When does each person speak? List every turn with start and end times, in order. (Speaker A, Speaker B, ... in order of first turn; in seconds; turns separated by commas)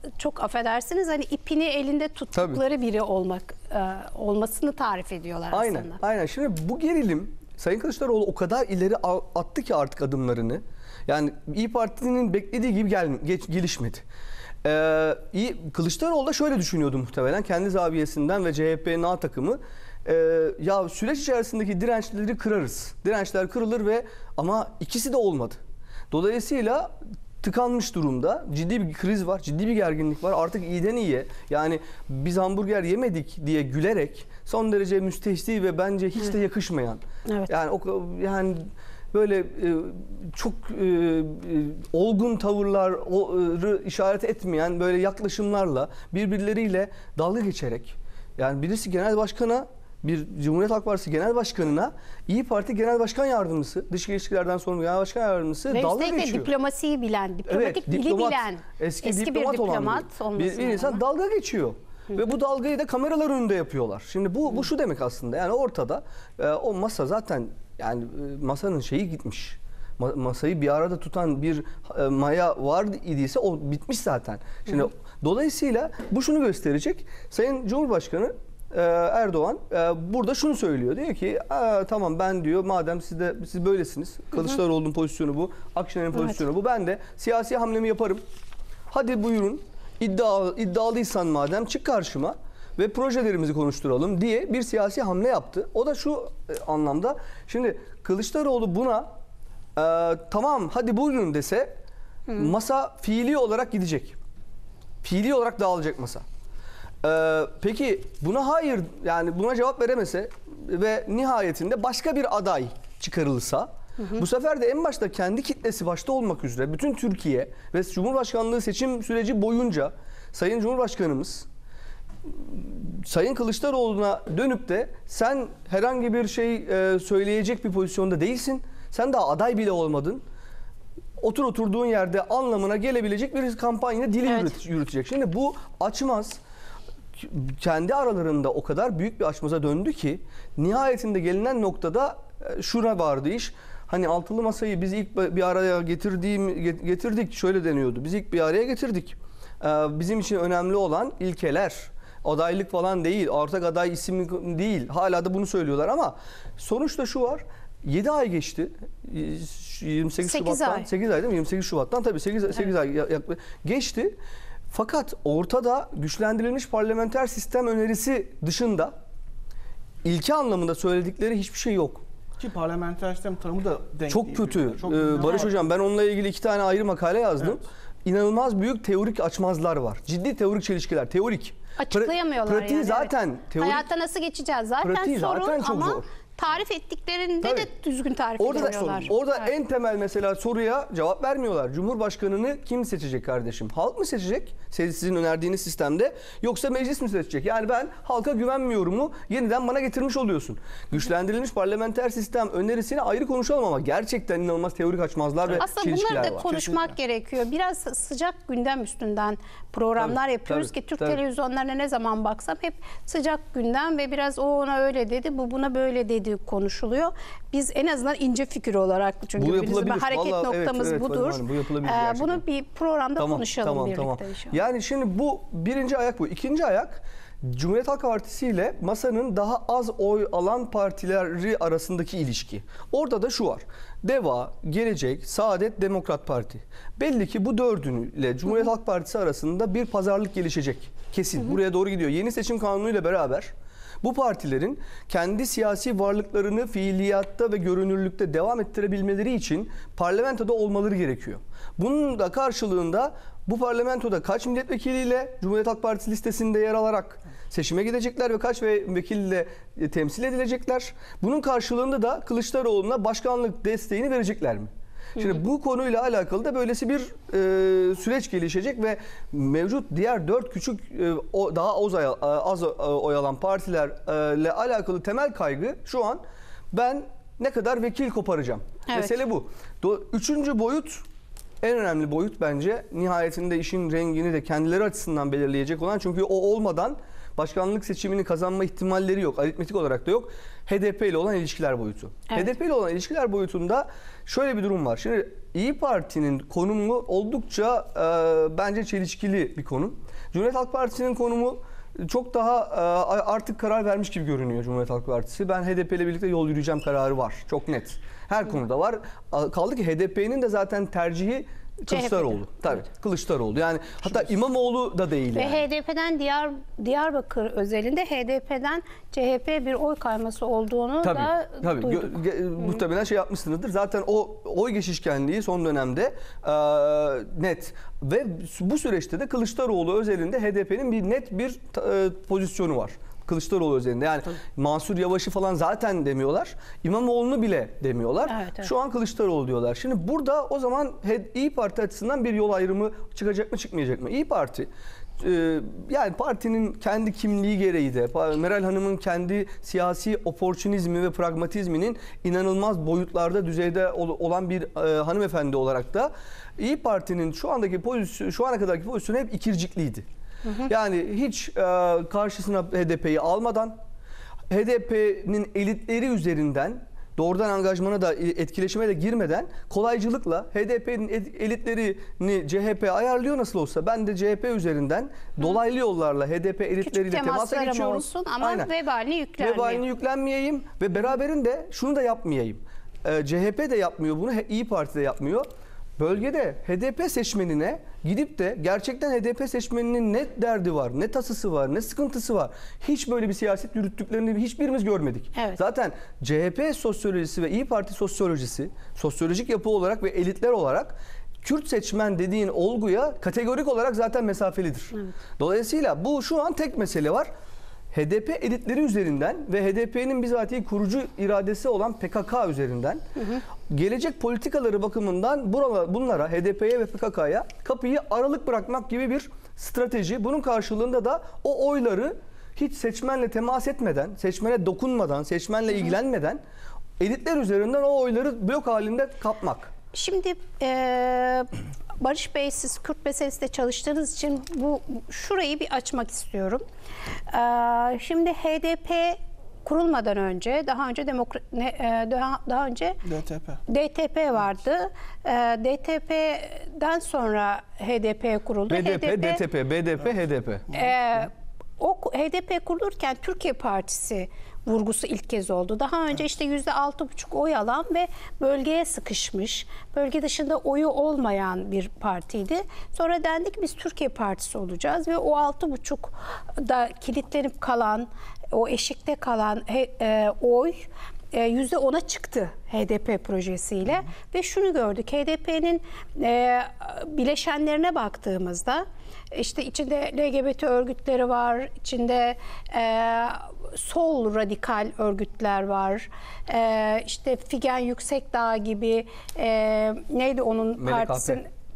Speaker A: 0.2-6.0, Speaker B: 2.4-2.6, Speaker B: 5.5-14.0, Speaker B: 14.6-25.6, Speaker B: 26.1-56.5, Speaker A: 55.7-61.0, Speaker B: 57.5-88.2, Speaker B: 88.9-99.1, Speaker B: 99.8-101.7, Speaker B: 102.3-104.2, Speaker B: 105.0-106.2, Speaker B: 107.0-121.5, Speaker B: 122.3-130.2, Speaker B: 131.2-136.4, Speaker B: 137.2-164.2, Speaker A: 160.2-160.9, Speaker B: 164.7-168.9, Speaker B: 170.0-172.0, Speaker C: 172.4-175.7, Speaker B: 174.1-183.8, Speaker A: 181.8-189.5, Speaker B: 184.8-186.1, Speaker B: 187.4-187.7, Speaker B: 188.4-206.6, Speaker A: 205.6-224.6, Speaker C: 206.5-206.8, Speaker B: 210.0-211.2, Speaker B: 219.4-222.4, Speaker B: 223.2-281.0, Speaker A: 278.9-279.1, Speaker B: 281.6-315.6, Speaker A: 311.9-312.4, Speaker A: 315.4-322.8, Speaker B: 321.0-344.7, Speaker A: 338.3-338.7, Speaker B: 345.2-360.1, Speaker B: 360.6-363.8, Speaker B: 364.5-378.7, Speaker A: 376.8-379.8, Speaker B: 379.4-385.5, Speaker B: 386.0-407.3, Speaker B: 407.9-413.0, Speaker B: 413.7-426.4, Speaker B: 427.0-429.7, Speaker A: 429.9-436.6, Speaker A: 437.3-443.0, Speaker C: 443.0-443.6, Speaker A: 443.7-449.4, Speaker B: 448.7-450.7, Speaker A: 450.7-491.5, Speaker B: 490.8-491.4